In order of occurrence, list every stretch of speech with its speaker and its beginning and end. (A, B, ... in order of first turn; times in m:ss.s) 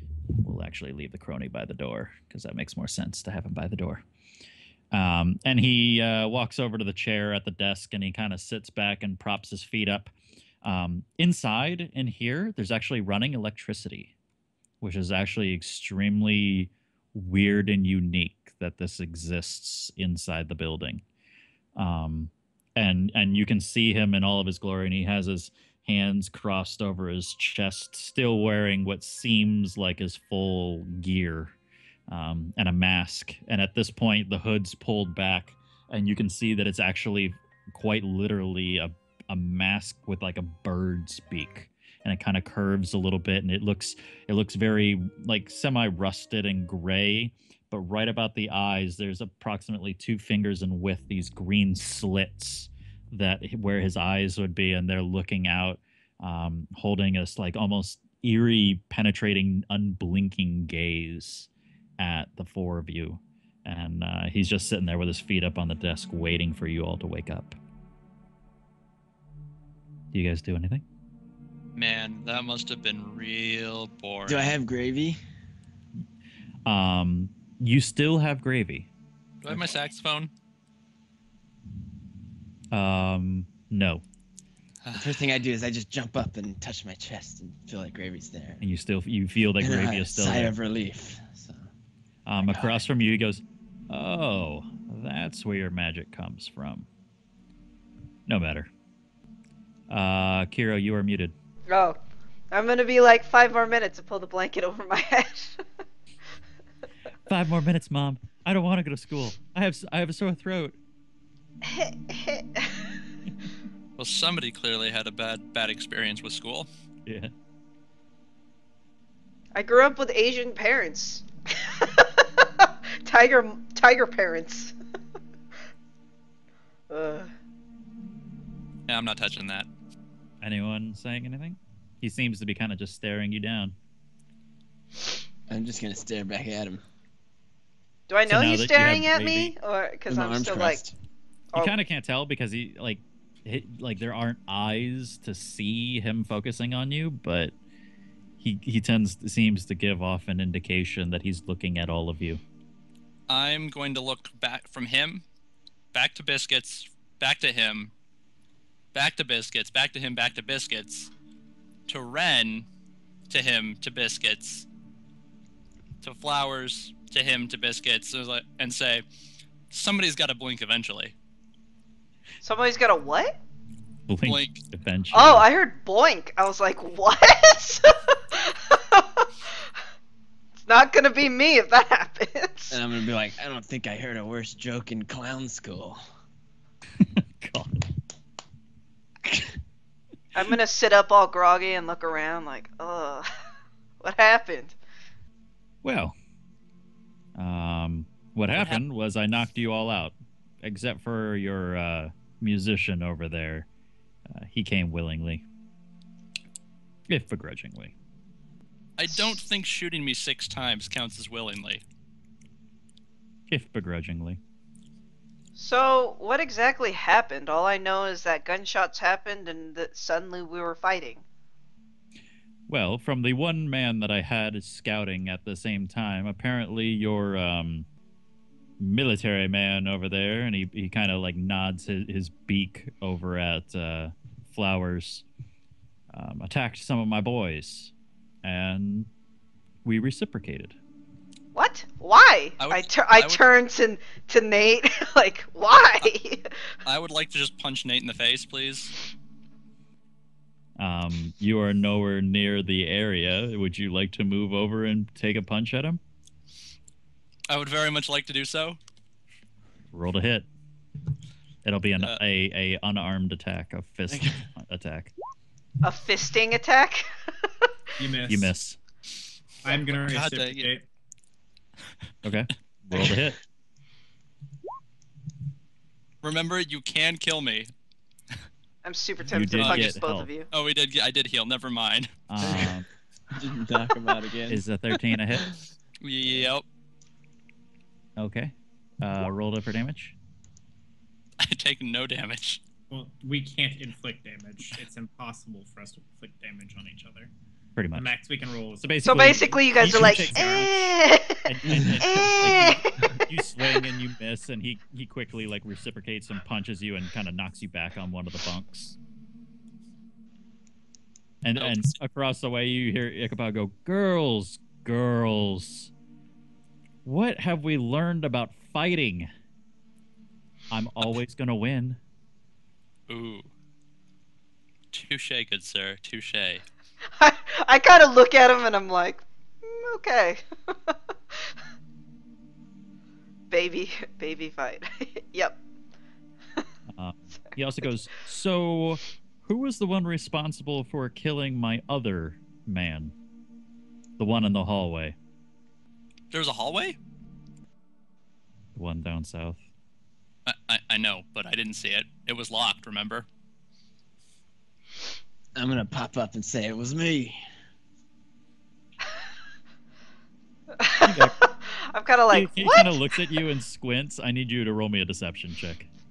0:00.4-0:04.0 A
0:04.9-0:14.1 A
0:14.8-0:21.0 A
0:21.8-0:31.6 A
0:32.1-1:07.6 A
1:10.1-1:10.8 A
1:11.7-1:14.5 B
1:14.3-1:15.2 C
1:16.6-1:18.9 A
1:19.4-1:20.3 B
1:19.5-1:19.8 A
1:22.7-1:24.0 A
1:24.8-1:25.2 B
1:24.9-1:28.6 C
1:28.6-1:30.5 A
1:29.6-1:31.7 C
1:32.3-1:36.9 A
1:32.4-1:32.8 C
1:38.3-1:38.7 A
1:39.9-1:41.3 A
1:41.7-1:42.0 D
1:42.5-1:45.6 D
1:47.2-1:50.8 A
1:51.6-1:52.9 D
1:54.0-1:56.7 B
1:57.0-1:57.3 A
1:59.5-2:04.7 D
2:06.9-2:07.3 D
2:08.9-2:09.7 B
2:10.4-2:13.7 A
2:15.5-2:16.8 C
2:18.1-2:20.8 D
2:18.3-2:19.5 A
2:20.1-2:20.9 C
2:21.5-2:27.5 A
2:28.4-2:32.4 A
2:33.3-2:35.2 B
2:35.9-2:37.9 B
2:38.9-2:41.1 B
2:41.9-2:42.6 B
2:43.3-2:44.6 B
2:46.0-2:49.0 B
2:49.7-2:51.1 B
2:52.4-2:53.4 D
2:54.1-2:55.4 A
2:54.2-2:54.6 B
2:55.1-2:59.3 D
3:00.6-3:02.8 D
3:02.7-3:06.0 C
3:07.0-3:07.9 A
3:09.2-3:09.6 C
3:10.3-3:13.3 D
3:14.0-3:14.8 D
3:15.8-3:16.1 A
3:17.3-3:23.7 A
3:18.5-3:18.8 B
3:24.3-3:25.4 A
3:27.1-3:27.9 A
3:29.0-3:31.8 B
3:33.5-3:34.4 A
3:35.6-3:41.2 D
3:42.7-3:47.9 A
3:48.8-3:55.2 A
3:56.1-3:57.9 A
3:58.4-3:59.1 A
3:59.8-4:00.8 A
4:01.5-4:06.6 D
4:02.6-4:03.4 B
4:06.8-4:08.9 B
4:10.8-4:16.0 A
4:17.5-4:18.8 B
4:19.9-4:20.5 A
4:21.6-4:25.1 A
4:24.1-4:24.4 C
4:25.8-4:27.5 D
4:28.0-4:28.5 E
4:28.3-4:28.8 A
4:29.6-4:30.7 B
4:29.6-4:30.8 E
4:32.2-4:33.4 A
4:36.2-4:37.7 B
4:38.8-4:40.5 D
4:39.3-4:40.3 A
4:39.5-4:40.0 B
4:40.5-4:42.6 B
4:42.3-4:42.9 A
4:42.4-4:44.6 C
4:44.5-4:45.5 A
4:45.3-4:45.6 C
4:46.0-4:46.6 B
4:46.2-4:46.5 C
4:48.2-4:50.1 A
4:51.4-4:52.6 B
4:52.9-4:57.3 E
4:57.8-4:58.1 A
4:57.9-5:00.6 E
4:58.8-5:09.0 A
4:59.0-5:03.2 D
5:01.7-5:02.3 C
5:11.4-5:15.9 A
5:11.6-5:11.9 B
5:17.0-5:19.3 A
5:20.7-5:22.0 A
5:23.1-5:23.5 B
5:24.9-5:26.6 B
5:27.1-5:31.5 D
5:33.5-5:35.6 D
5:36.9-5:43.1 A
5:44.2-5:45.2 A
5:46.3-5:47.0 B
5:48.7-5:49.6 A
5:50.4-5:53.2 B
5:55.6-5:57.4 C
6:00.8-6:03.2 D
6:01.0-6:01.3 A
6:02.3-6:05.9 A